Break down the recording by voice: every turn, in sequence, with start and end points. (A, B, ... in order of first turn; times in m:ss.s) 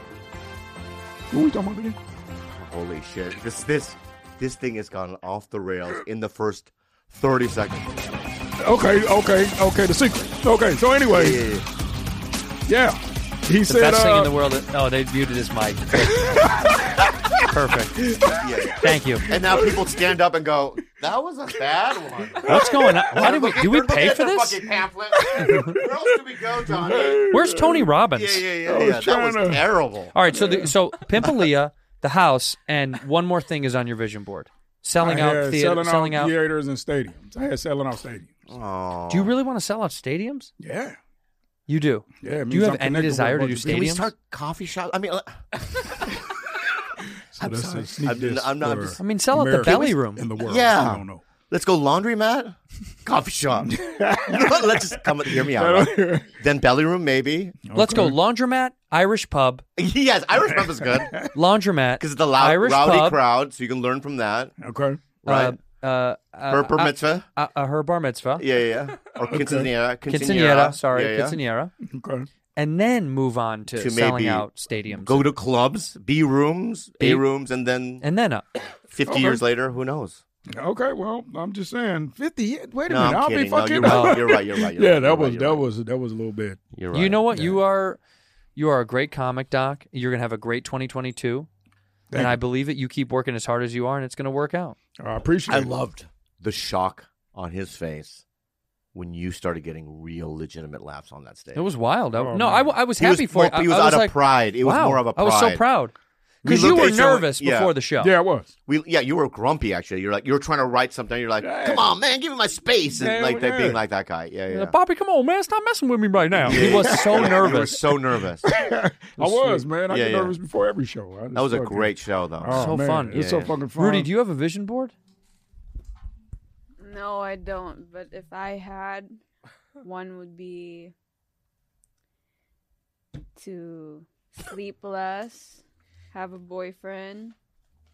0:01.3-0:02.0 A
0:02.5-0:08.2 B
0:08.6-0:11.4 A
0:11.1-0:11.6 B
0:12.7-0:14.3 A
0:13.6-0:16.3 C
0:16.0-0:16.6 A
0:17.5-0:18.0 C
0:18.1-0:19.7 A
0:18.4-0:27.4 B
0:18.8-0:19.3 C
0:22.4-0:23.3 A
0:22.4-0:24.6 C
0:25.2-0:25.9 A
0:26.6-0:27.9 A
0:27.3-0:28.4 C
0:28.1-0:30.1 B
0:28.6-0:29.6 A
0:30.1-0:36.3 C
0:30.3-0:30.7 A
0:35.0-0:38.3 A
0:38.5-0:39.3 B
0:39.1-0:40.5 C
0:40.6-0:41.0 A
0:41.7-0:44.1 C
0:42.2-0:43.8 A
0:43.7-0:45.4 B
0:47.3-0:51.2 A
0:47.4-0:49.0 B
0:49.0-0:50.2 C
0:50.4-0:57.6 B
0:53.6-0:56.3 A
0:57.6-0:58.2 A
0:57.7-0:59.6 C
0:59.8-1:01.2 B
1:00.6-1:01.3 A
1:01.3-1:03.2 C
1:02.0-1:04.5 B
1:04.6-1:05.0 A
1:05.2-1:05.6 B
1:05.2-1:08.4 C
1:06.5-1:07.2 B
1:08.4-1:11.4 B
1:09.2-1:09.7 A
1:10.1-1:11.7 C
1:11.8-1:12.3 A
1:12.6-1:15.3 C
1:13.8-1:18.0 B
1:18.0-1:18.4 C
1:18.9-1:20.2 B
1:19.1-1:19.4 A
1:20.5-1:26.6 A
1:22.9-1:25.7 B
1:23.8-1:24.2 C
1:26.7-1:27.6 B
1:26.9-1:28.0 C
1:28.6-1:31.5 C
1:32.1-1:32.4 A
1:32.1-1:34.8 C
1:35.0-1:35.7 A
1:35.5-1:38.2 B
1:38.9-1:41.6 B
1:41.5-1:48.1 C
1:42.2-1:42.7 A
1:43.0-1:45.6 B
1:46.4-1:47.7 B
1:46.5-1:46.8 A
1:48.0-1:48.5 A
1:48.7-1:54.7 B
1:51.4-1:51.9 A
1:52.9-1:53.8 A
1:54.5-1:57.8 C
1:56.3-1:57.7 A
1:56.4-1:58.5 B
1:58.4-2:04.1 A
1:59.2-1:59.6 C
1:59.9-2:00.4 B
2:01.3-2:03.5 B
2:02.5-2:04.9 C
2:06.8-2:09.2 D
2:09.8-2:10.9 D
2:13.4-2:17.4 D